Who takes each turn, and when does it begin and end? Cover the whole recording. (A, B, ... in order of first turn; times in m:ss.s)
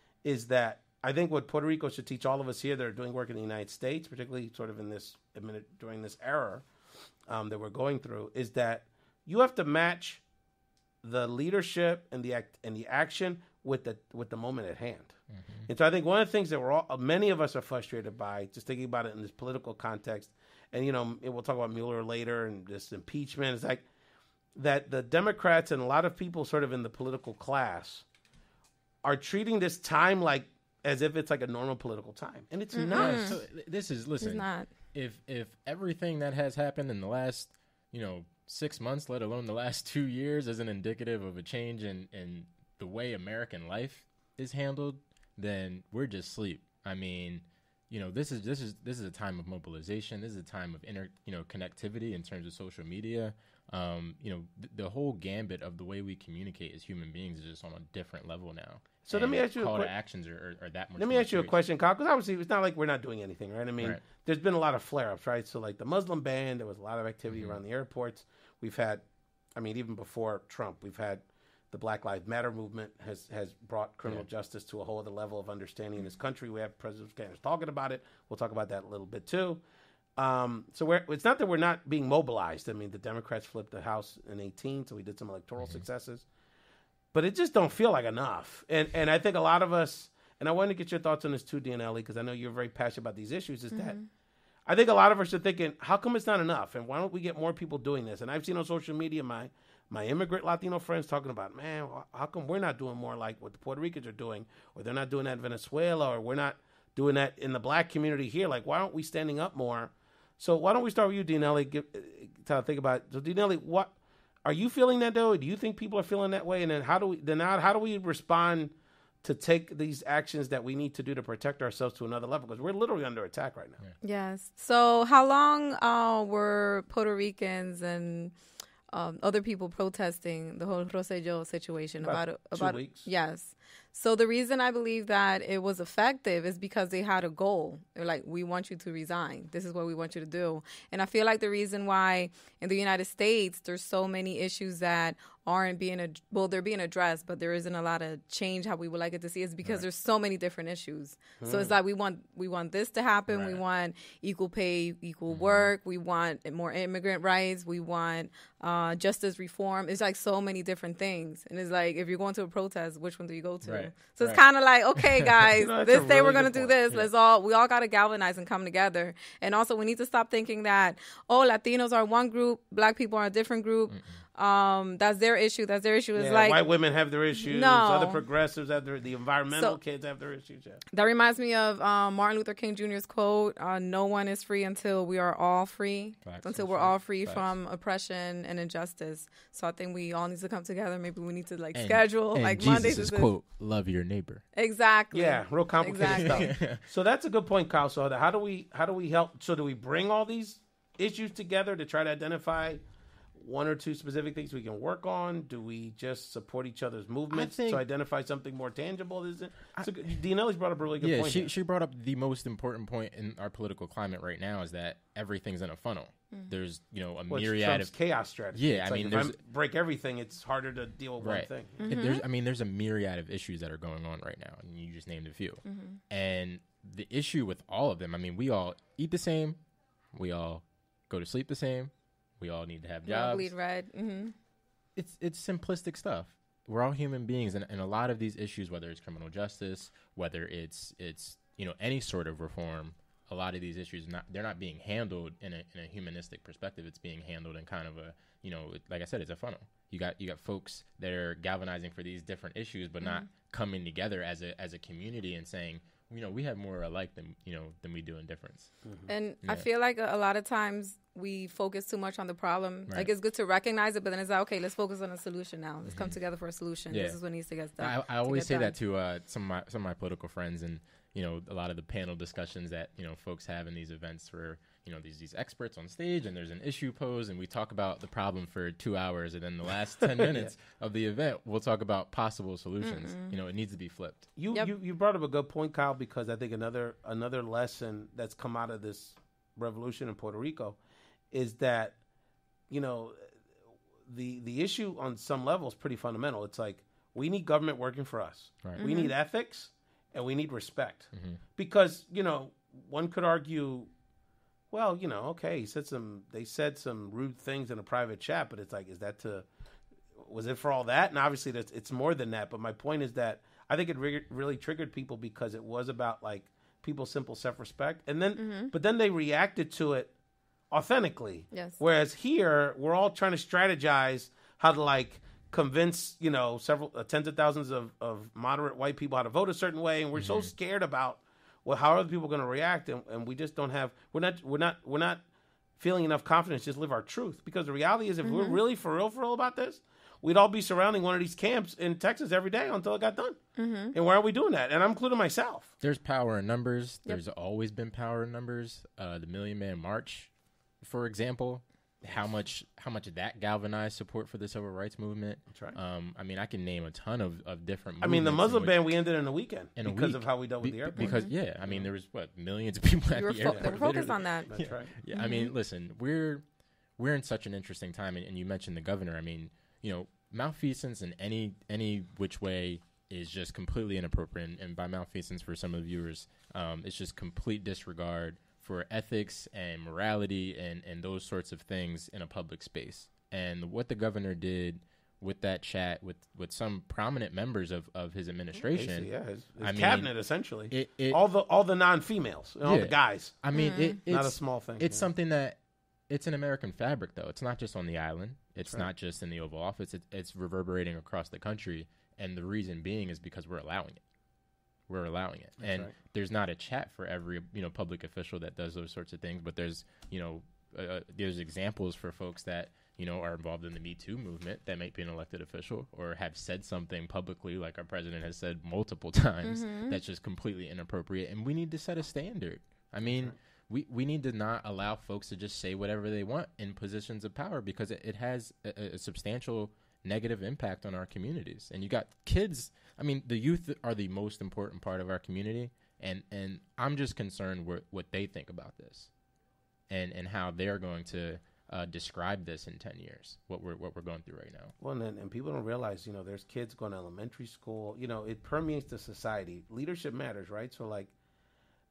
0:00.2-0:06.6 A
0:07.3-0:10.2 A
0:11.0-0:15.1 A
0:15.3-0:15.7 B
0:15.7-0:23.8 A
0:24.5-0:28.0 A
0:29.0-0:33.4 A
0:32.7-0:33.4 C
0:32.9-1:01.6 B
0:34.2-0:34.7 C
0:59.0-0:59.9 A
1:01.0-1:09.0 A
1:07.3-1:07.6 B
1:09.5-1:19.6 A
1:20.2-1:26.2 A
1:27.1-1:34.0 A
1:33.7-1:34.0 C
1:34.6-1:53.9 A
1:54.4-2:03.8 A
2:04.0-2:08.3 C
2:08.9-2:56.6 C
2:12.0-2:13.1 A
2:31.4-2:31.7 A
2:33.3-2:33.6 B
2:35.3-2:35.7 B
2:43.6-2:44.4 B
2:45.0-2:45.5 B
2:45.6-2:46.7 A
2:53.9-2:54.2 B
2:56.1-3:00.8 A
2:57.4-2:58.2 C
2:59.5-2:59.8 C
3:00.9-3:13.3 C
3:06.2-3:07.5 B
3:11.7-3:14.4 B
3:14.5-3:16.5 C
3:15.1-3:22.8 A
3:16.0-3:16.8 B
3:23.4-3:31.5 A
3:27.3-3:27.8 B
3:31.0-3:37.9 B
3:37.3-3:41.9 A
3:38.5-3:39.4 B
3:41.2-3:49.6 B
3:41.8-3:42.2 C
3:45.6-3:46.0 C
3:50.1-3:53.5 B
3:53.0-3:54.3 C
3:55.0-4:18.7 B
4:13.0-4:13.3 C
4:19.1-4:28.8 C
4:25.9-4:26.2 B
4:26.9-4:27.2 B
4:27.8-4:44.3 B
4:40.2-4:40.5 A
4:42.8-4:43.3 C
4:44.4-4:50.8 A
4:51.3-4:51.9 A
4:52.7-4:53.2 A
4:54.1-5:03.9 A
4:58.8-4:59.1 C
5:01.1-5:01.4 B
5:04.7-5:09.4 A
5:10.2-5:20.1 A
5:18.4-5:18.7 C
5:20.7-5:35.2 A
5:21.5-5:21.8 C
5:30.1-5:30.5 B
5:35.8-5:43.4 A
5:38.2-5:38.6 C
5:43.6-5:43.9 C
5:43.9-5:45.7 A
5:45.8-5:58.9 B
5:55.5-5:55.8 A
5:58.0-6:01.9 A
5:59.8-6:06.4 B
6:01.0-6:01.3 C
6:03.1-6:04.5 C
6:03.4-6:03.8 A
6:04.5-6:04.9 A
6:05.1-6:05.5 C
6:07.0-6:30.1 B
6:28.7-6:33.4 A
6:30.7-6:31.2 B
6:32.6-6:35.6 B
6:33.5-6:34.0 C
6:34.1-6:35.1 A
6:36.1-6:44.0 B
6:44.9-7:19.1 B
6:45.6-6:45.9 A
6:59.4-7:00.0 C
7:03.0-7:03.3 A
7:19.9-7:24.7 B
7:24.8-7:31.1 A